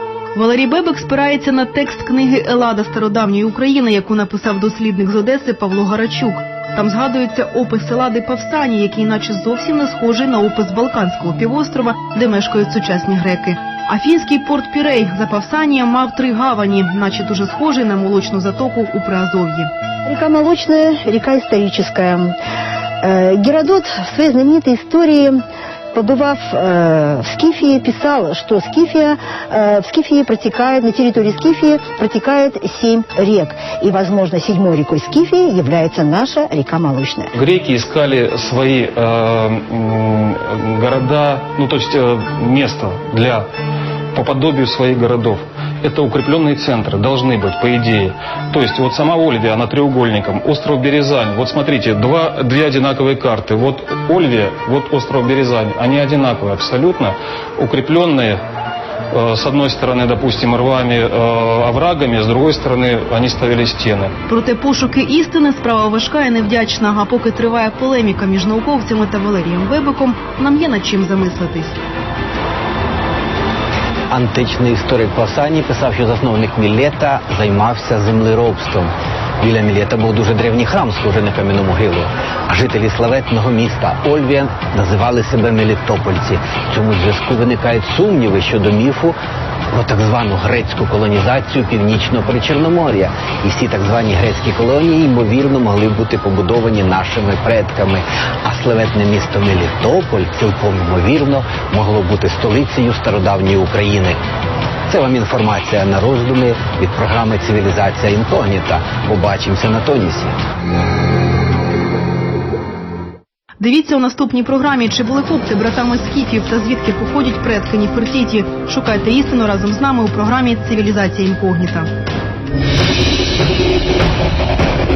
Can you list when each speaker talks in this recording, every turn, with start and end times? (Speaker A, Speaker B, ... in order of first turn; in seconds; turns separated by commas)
Speaker A: 0.3-19.7, Speaker B: 20.1-22.3, Speaker B: 23.0-25.4, Speaker B: 25.9-37.3, Speaker C: 37.3-43.5, Speaker C: 44.1-58.4, Speaker C: 59.1-64.1, Speaker A: 64.3-71.8, Speaker D: 74.1-89.2, Speaker D: 89.7-104.2, Speaker D: 104.9-110.4, Speaker A: 113.6-121.9